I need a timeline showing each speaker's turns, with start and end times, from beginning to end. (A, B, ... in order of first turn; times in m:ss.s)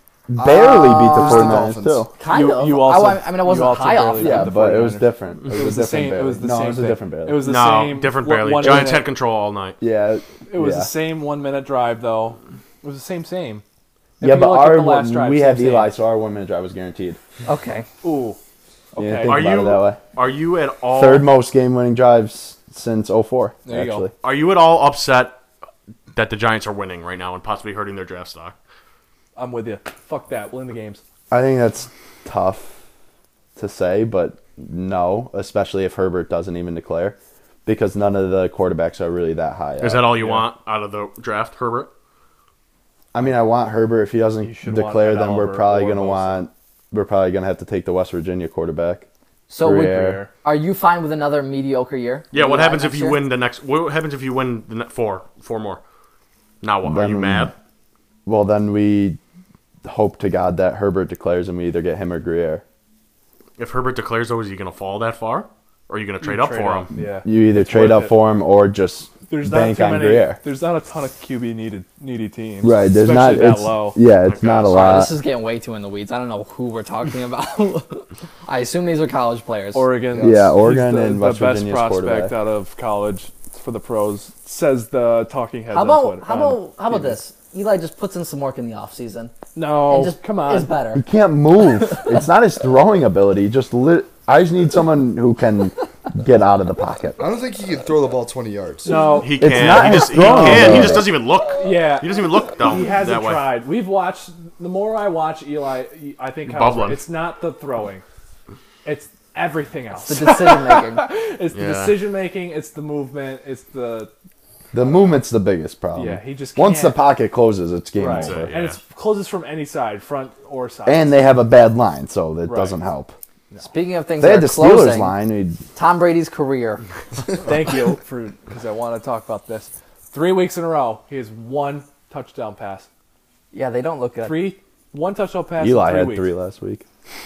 0:00.3-0:02.1 A
0:00.4-0:02.1 B
0:00.4-0:04.6 C
0:02.2-0:09.1 D
0:04.2-0:07.5 A
0:07.4-0:09.8 E
0:09.8-0:10.9 A
0:10.5-0:13.6 D
0:14.2-0:15.9 D
0:14.2-0:17.2 A
0:17.4-0:17.9 C
0:18.0-0:18.4 D
0:18.9-0:19.4 D
0:19.0-0:20.0 A
0:19.3-0:21.3 E
0:20.9-0:24.1 A
0:23.6-0:24.1 D
0:24.2-0:25.4 E
0:26.1-0:28.5 E
0:29.4-0:31.0 D
0:31.3-0:32.8 A
0:33.6-0:40.1 A
0:39.8-0:41.9 E
0:40.2-0:40.4 D
0:43.1-0:49.0 A
0:44.4-0:46.4 D
0:49.5-0:53.2 C
0:49.6-0:50.2 A
0:49.7-0:50.3 D
0:52.3-0:55.8 E
0:56.6-0:57.5 E
0:56.8-0:57.5 A
0:58.2-0:59.2 A
0:59.8-1:02.6 A
1:03.6-1:06.9 E
1:06.2-1:08.2 D
1:07.2-1:10.4 A
1:09.3-1:14.0 D
1:12.6-1:15.2 A
1:14.2-1:15.1 E
1:14.7-1:19.9 C
1:19.7-1:27.1 D
1:20.1-1:20.5 B
1:20.2-1:22.3 A
1:25.7-1:31.0 C
1:29.5-1:30.7 D
1:30.9-1:37.2 A
1:37.2-1:39.2 B
1:38.8-1:40.9 D
1:39.2-1:43.5 E
1:39.4-1:41.1 A
1:41.5-1:48.0 D
1:46.4-1:47.0 E
1:48.8-1:54.1 D
1:50.0-1:51.0 C
1:51.5-1:52.0 E
1:54.7-1:58.5 A
1:54.8-1:55.2 D
1:55.9-1:57.0 D
1:58.0-2:01.2 D
1:58.1-1:58.8 E
2:00.8-2:03.2 A
2:02.4-2:02.8 D
2:03.6-2:05.1 C
2:04.2-2:05.6 A
2:05.7-2:06.8 C
2:07.4-2:12.9 D
2:13.5-2:14.6 C
2:14.2-2:16.3 D
2:15.6-2:16.8 A